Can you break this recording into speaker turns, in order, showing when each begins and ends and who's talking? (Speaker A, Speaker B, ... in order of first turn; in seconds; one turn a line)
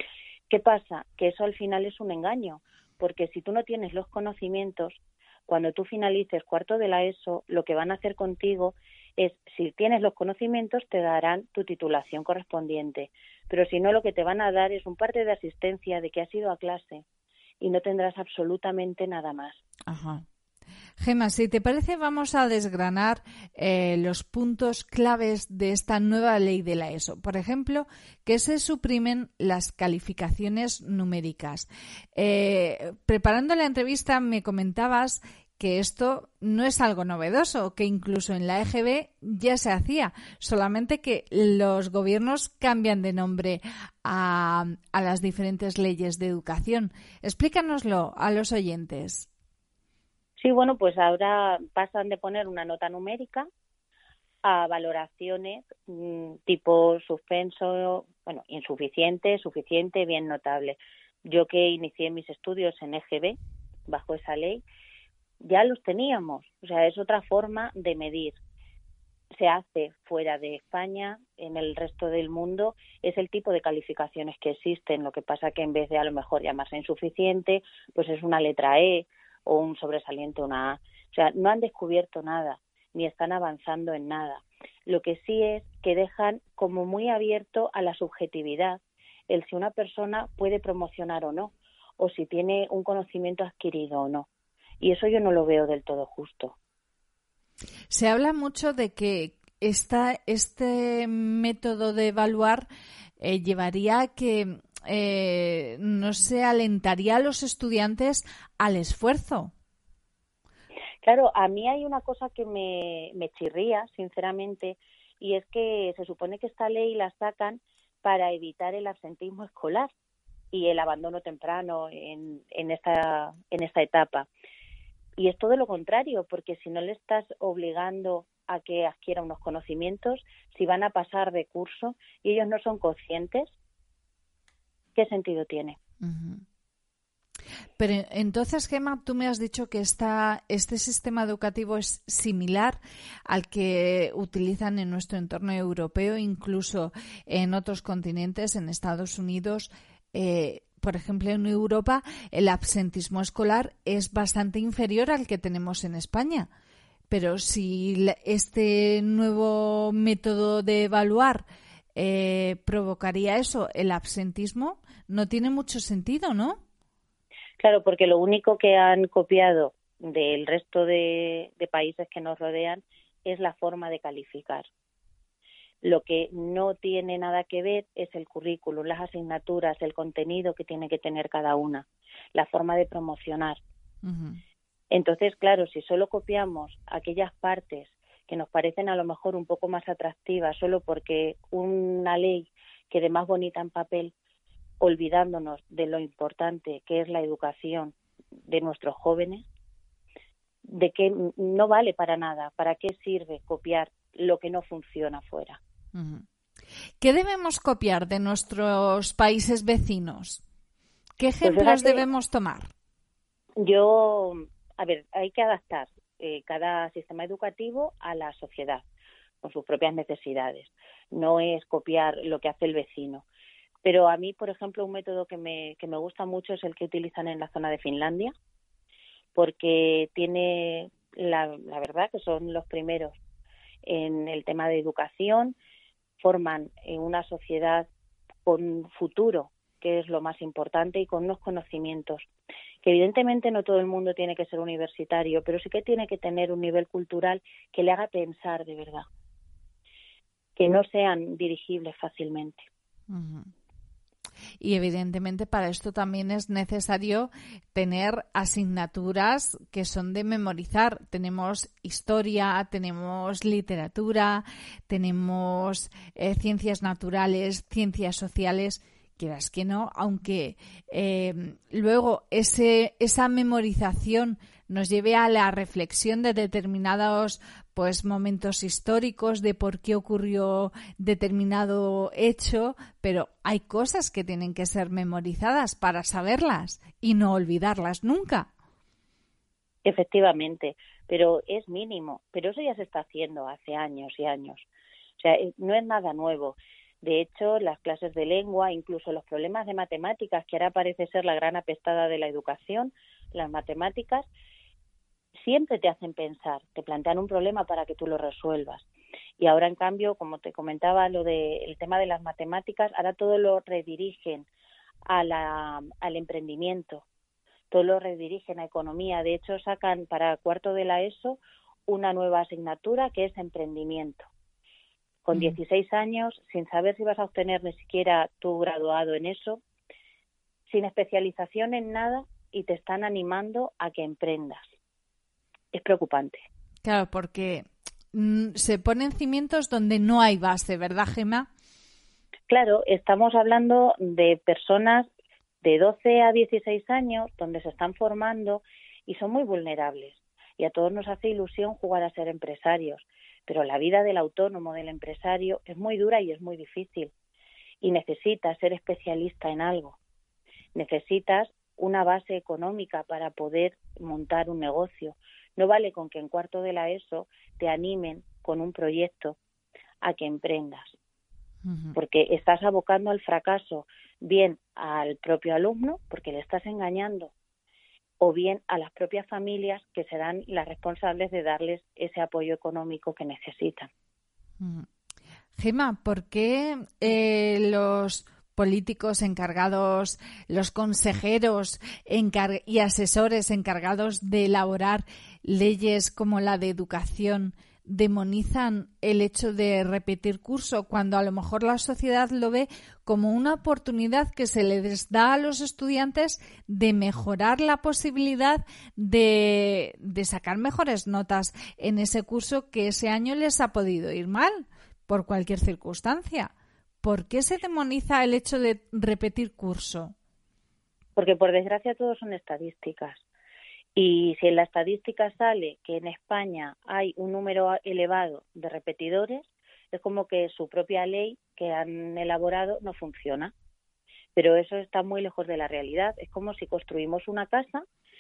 Speaker A: 0.5-17.0
Speaker A: 17.6-19.6
Speaker B: 19.9-20.2
Speaker B: 21.0-49.3
Speaker A: 50.4-53.5
Speaker A: 54.4-63.4
Speaker A: 63.9-64.6
Speaker A: 65.4-68.4
Speaker A: 69.3-94.3
Speaker A: 94.8-96.5
Speaker B: 97.9-102.7
Speaker B: 103.2-109.5
Speaker A: 111.0-119.9
Speaker A: 120.5-124.3
Speaker A: 125.2-133.5
Speaker A: 134.9-135.8
Speaker B: 136.0-136.4
Speaker B: 137.8-156.5
Speaker B: 157.1-161.4
Speaker B: 162.0-166.6
Speaker A: 167.6-174.7
Speaker A: 175.8-183.6
Speaker B: 184.0-184.4
Speaker A: 184.9-194.1
Speaker A: 194.8-197.9
Speaker A: 198.5-199.5
Speaker A: 200.7-205.6
Speaker B: 205.9-206.2
Speaker B: 207.0-210.4
Speaker B: 211.2-212.7
Speaker A: 211.4-212.0
Speaker A: 213.6-218.8
Speaker A: 219.4-223.2
Speaker A: 223.8-228.3
Speaker A: 229.3-233.2
Speaker A: 233.8-235.6
Speaker A: 236.2-237.9
Speaker A: 238.5-242.3
Speaker A: 242.8-249.1
Speaker A: 250.6-252.7
Speaker B: 253.1-253.5
Speaker B: 254.6-288.5
Speaker A: 289.9-294.7
Speaker A: 295.2-304.3
Speaker A: 305.4-308.9
Speaker A: 309.4-314.5
Speaker A: 315.1-317.0
Speaker A: 317.7-324.3
Speaker A: 325.3-329.6
Speaker B: 325.3-325.6
Speaker A: 330.7-334.7
Speaker A: 335.7-336.4
Speaker B: 336.8-341.5
Speaker A: 342.5-345.1
Speaker A: 345.6-357.1
Speaker A: 357.8-360.0
Speaker A: 360.8-369.4
Speaker A: 370.0-371.0
Speaker B: 371.6-372.0
Speaker A: 371.9-377.3
Speaker A: 378.2-383.9
Speaker B: 384.6-384.9
Speaker B: 385.6-416.5
Speaker B: 417.0-420.1
Speaker A: 421.2-423.2
Speaker A: 424.0-433.5
Speaker A: 434.4-437.9